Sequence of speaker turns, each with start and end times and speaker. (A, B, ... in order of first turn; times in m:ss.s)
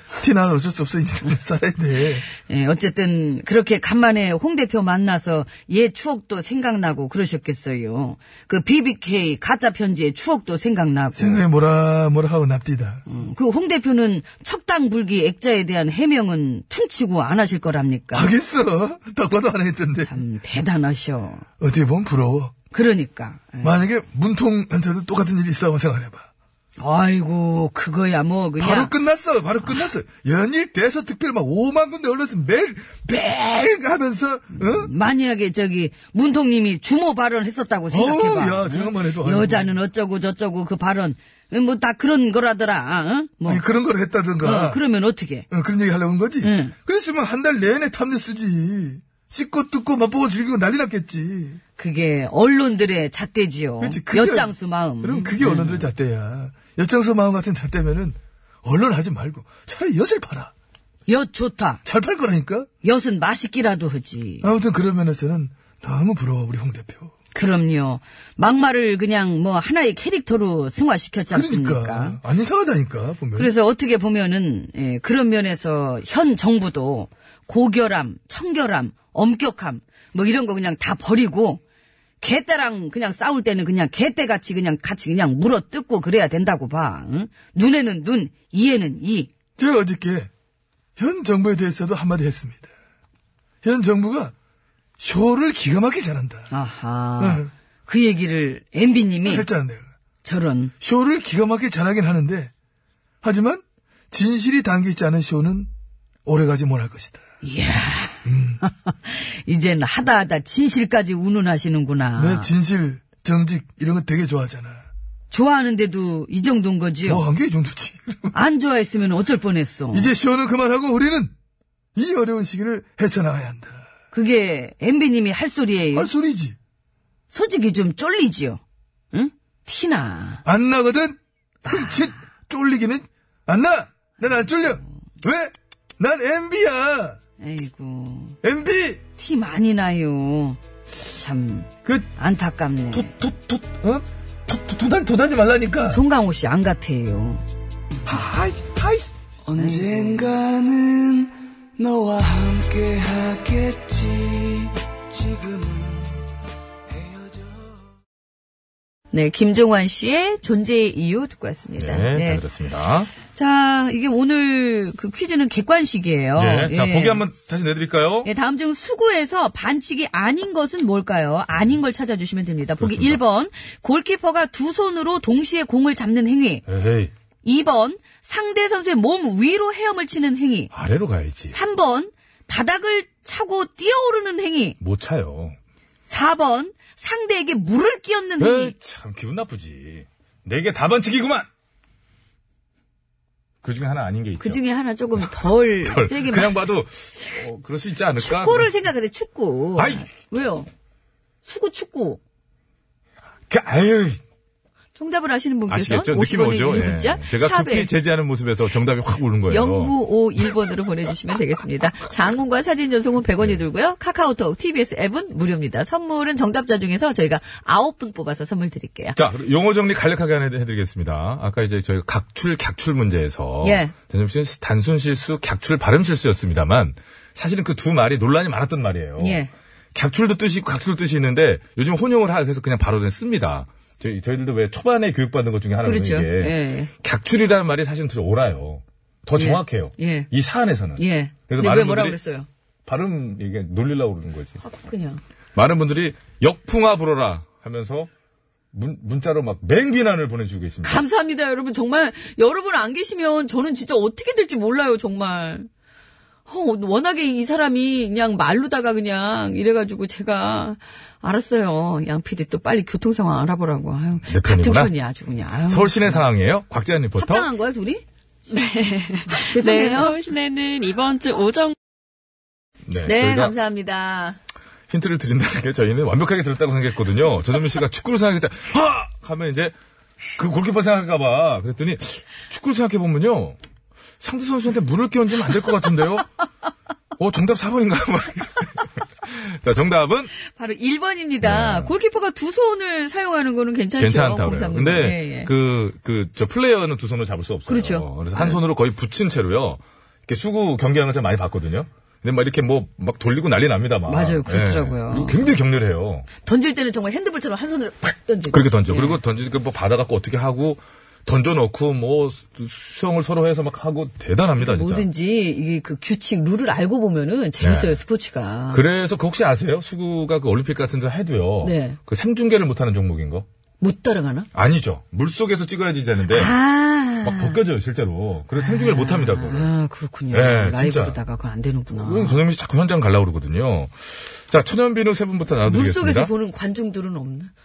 0:00.2-0:02.2 A
0:02.3-0:11.4 B
0:11.1-0:13.0 A
0:13.0-0:18.3 B
0:18.1-0:20.1 A
0:20.0-0:21.4 B
0:21.6-0:22.5 A
0:22.7-0:23.7 B
0:23.6-0:26.3 A
0:26.8-0:28.9 B
0:28.6-0:34.9 A
0:34.6-0:43.6 B
0:37.9-0:39.7 A
0:43.4-0:44.8 A
0:44.4-0:45.4 B
0:45.5-0:51.6 A
0:46.4-0:46.7 B
0:51.8-0:55.8 B
0:53.8-1:00.5 A
1:01.1-1:01.8 B
1:01.8-1:02.7 A
1:02.8-1:04.5 B
1:04.4-1:07.1 A
1:07.3-1:12.2 B
1:11.3-1:13.5 A
1:13.4-1:21.6 B
1:22.2-1:29.3 B
1:29.6-1:30.3 A
1:31.0-1:32.7 A
1:33.6-1:34.3 A
1:35.0-1:36.5 A
1:36.5-1:39.4 B
1:37.2-1:37.5 A
1:39.2-1:39.8 A
1:40.2-1:40.7 B
1:40.8-1:42.5 A
1:43.2-1:45.7 A
1:46.2-1:47.2 A
1:47.4-1:52.5 B
1:48.2-1:48.6 A
1:52.2-1:54.8 A
1:55.3-1:57.2 B
1:57.0-1:58.3 A
1:58.3-2:00.1 B
1:59.9-2:01.3 A
2:01.9-2:03.8 A
2:04.1-2:06.1 B
2:05.9-2:06.6 A
2:07.3-2:08.6 B
2:09.1-2:10.4 B
2:10.4-2:17.2 A
2:11.6-2:12.2 B
2:14.2-2:14.9 B
2:17.4-2:18.4 B
2:18.4-2:19.0 A
2:19.2-2:23.1 B
2:22.9-2:26.0 A
2:25.9-2:27.4 B
2:28.0-2:29.1 A
2:29.6-2:30.0 B
2:29.6-2:31.2 C
2:29.6-2:30.2 A
2:31.8-2:35.9 C
2:39.1-2:42.4 B
2:41.8-2:43.1 D
2:43.3-2:47.2 B
2:46.4-2:48.3 D
2:48.2-2:56.6 B
2:52.8-2:53.2 D
2:56.7-2:57.1 D
2:57.4-3:00.7 B
3:00.7-3:01.5 D
3:01.5-3:04.8 B
3:04.8-3:05.6 D
3:06.1-3:08.7 B
3:08.4-3:11.5 D
3:13.6-3:14.6 D
3:14.4-3:17.4 B
3:15.2-3:18.7 D
3:18.2-3:20.7 B
3:19.8-3:20.2 D
3:21.4-3:22.2 B
3:23.5-3:24.2 D
3:25.0-3:27.9 B
3:25.7-3:30.0 D
3:29.5-3:39.2 B
3:39.1-4:02.2 D
3:43.6-3:43.9 B
3:49.2-3:49.5 B
3:55.8-3:56.9 B
3:59.3-4:00.3 B
4:01.0-4:02.5 B
4:02.8-4:04.6 D
4:04.6-4:05.2 B
4:05.5-4:08.1 D
4:08.7-4:11.0 D
4:10.8-4:15.7 B
4:16.5-4:26.2 B
4:24.3-4:24.9 D
4:25.7-4:27.5 D
4:27.2-4:28.0 B
4:28.5-4:31.8 E
4:29.3-4:30.2 B
4:32.8-4:33.5 D
4:33.0-4:34.4 B
4:34.9-4:39.7 D
4:40.4-4:43.6 D
4:44.2-4:46.2 D
4:47.2-4:50.3 D
4:50.5-4:55.5 B
4:51.4-4:51.9 D
4:54.0-5:06.3 D
4:57.7-4:58.6 B
5:04.1-5:05.5 B
5:06.4-5:09.2 B
5:08.5-5:15.0 D
5:14.6-5:18.8 B
5:17.6-5:18.0 D
5:18.7-5:23.4 D
5:21.6-5:22.0 B
5:23.8-5:24.5 B
5:24.5-5:26.6 D
5:26.3-5:27.6 B
5:27.2-5:29.7 D
5:28.5-5:32.4 B
5:30.3-5:31.2 D
5:31.9-5:36.3 D
5:35.6-5:37.5 B